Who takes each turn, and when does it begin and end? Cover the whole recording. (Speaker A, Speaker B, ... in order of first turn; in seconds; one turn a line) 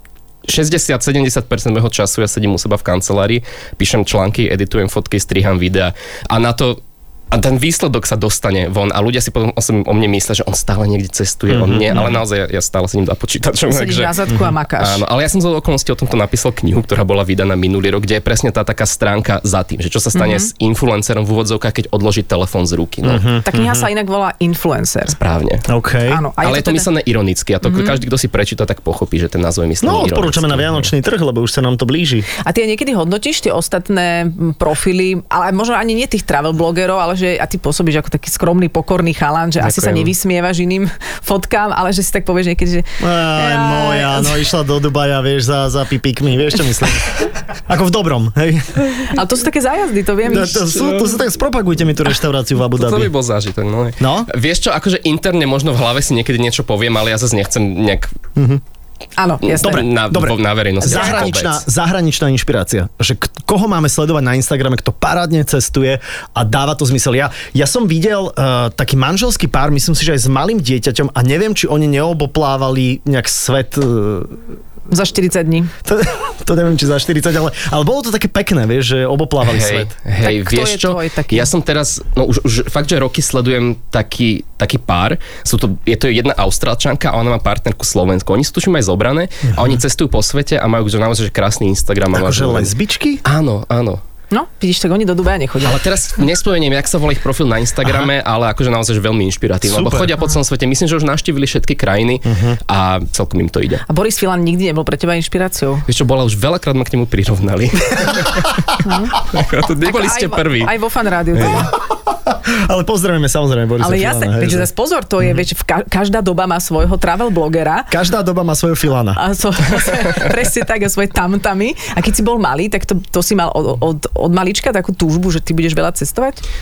Speaker A: 0.5-14.2
Speaker B: 11.5-12.1
Speaker C: 13.7-15.0
Speaker A: 14.8-23.3
Speaker C: 20.1-20.5
Speaker B: 23.0-23.9
Speaker C: 23.4-25.2
Speaker A: 25.1-25.6
Speaker B: 25.7-26.2
Speaker C: 26.1-26.9
Speaker A: 26.4-30.9
Speaker C: 27.6-28.0
Speaker B: 29.8-32.3
Speaker C: 32.4-44.4
Speaker A: 39.6-40.1
Speaker B: 43.0-49.1
Speaker C: 49.0-51.0
Speaker B: 50.3-53.1
Speaker A: 52.7-58.1
Speaker B: 54.0-54.3
Speaker B: 58.4-58.6
Speaker C: 59.2-59.9
Speaker A: 59.4-61.6
Speaker B: 59.6-74.4
Speaker C: 60.8-61.3
Speaker C: 74.9-75.7
Speaker B: 75.8-79.9
Speaker A: 79.4-92.7
Speaker C: 80.2-81.5
Speaker B: 92.1-93.2
Speaker A: 93.2-94.0
Speaker C: 94.3-95.9
Speaker A: 95.6-103.8
Speaker B: 99.7-100.1
Speaker B: 102.3-102.6
Speaker C: 103.9-105.8
Speaker A: 105.9-110.8
Speaker B: 108.0-108.3
Speaker C: 108.8-109.1
Speaker C: 109.8-111.7
Speaker A: 111.3-111.7
Speaker B: 112.1-114.7
Speaker C: 113.8-117.9
Speaker B: 117.9-119.2
Speaker C: 119.2-126.4